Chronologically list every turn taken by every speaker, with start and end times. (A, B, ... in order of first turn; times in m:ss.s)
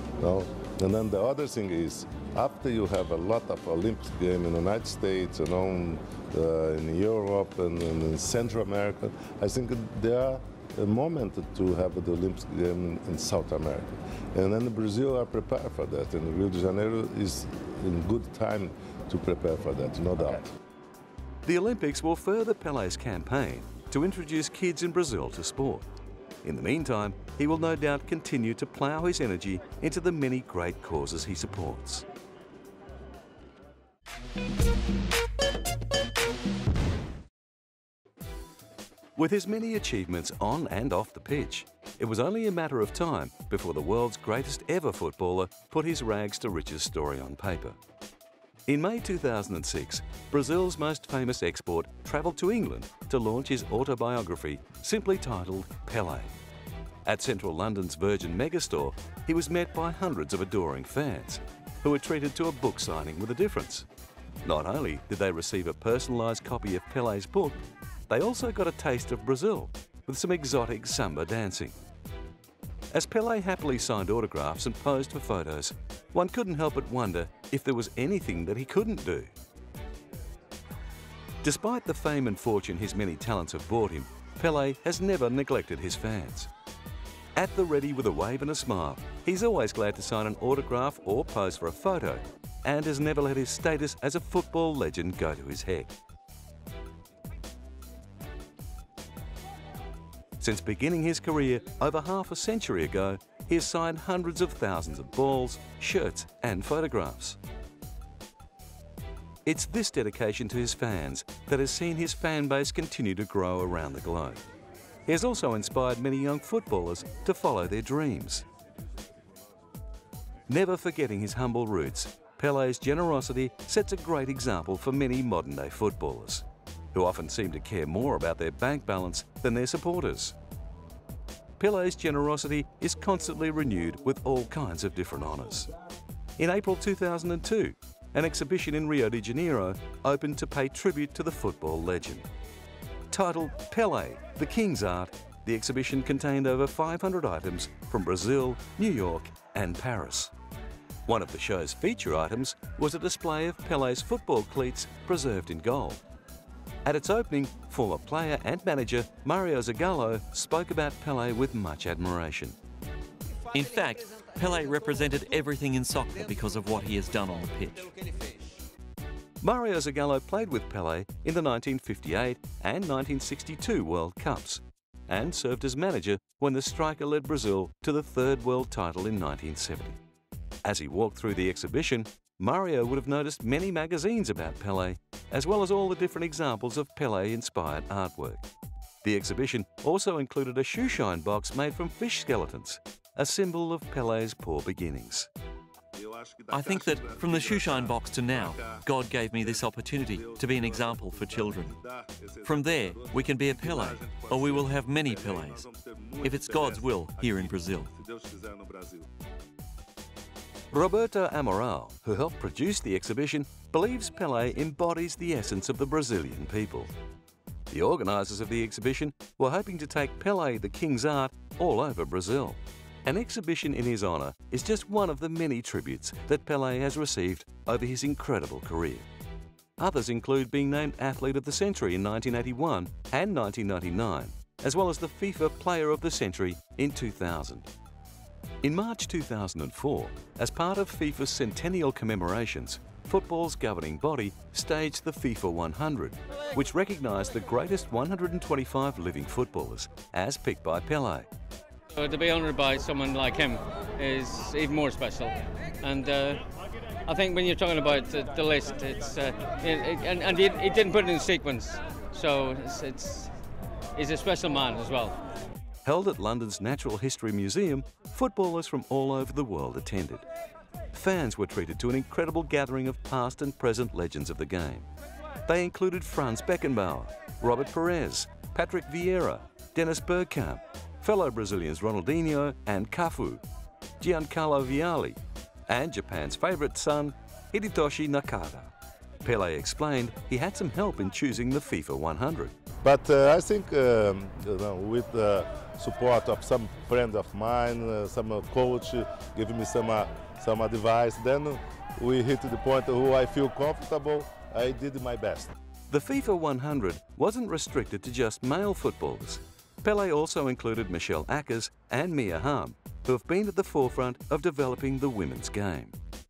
0:00.2-0:20.5 A
0:21.4-0:25.9 B
0:26.4-0:32.0 B
0:39.2-0:47.8 B
0:48.7-0:56.3 B
0:57.0-1:03.9 B
1:04.4-1:11.8 B
1:12.9-1:19.3 B
1:21.4-1:26.5 B
1:27.3-1:35.9 B
1:40.4-1:47.4 B
1:49.4-1:54.5 B
1:55.1-1:58.4 B
2:00.5-2:10.4 B
2:11.6-2:15.7 B
2:16.4-2:22.3 B
2:23.1-2:30.3 B
2:31.1-2:36.0 B
2:36.8-2:42.6 B
2:43.5-2:47.9 C
2:49.4-3:00.0 B
3:00.6-3:08.4 B
3:09.0-3:15.3 B
3:15.9-3:18.9 A
3:16.5-3:21.7 C
3:19.4-3:29.1 A
3:22.4-3:25.7 C
3:26.2-3:27.9 C
3:30.7-3:36.9 B
3:37.7-3:49.0 B
3:49.8-3:57.7 B
3:58.6-4:11.3 B
4:11.9-4:16.4 D
4:17.1-4:23.3 D
4:23.9-4:25.2 D
4:25.8-4:30.2 B
4:30.9-4:34.9 B
4:35.4-4:43.4 B
4:44.0-4:48.7 B
4:49.2-4:52.5 B
4:52.8-5:05.5 A
5:05.9-5:16.0 B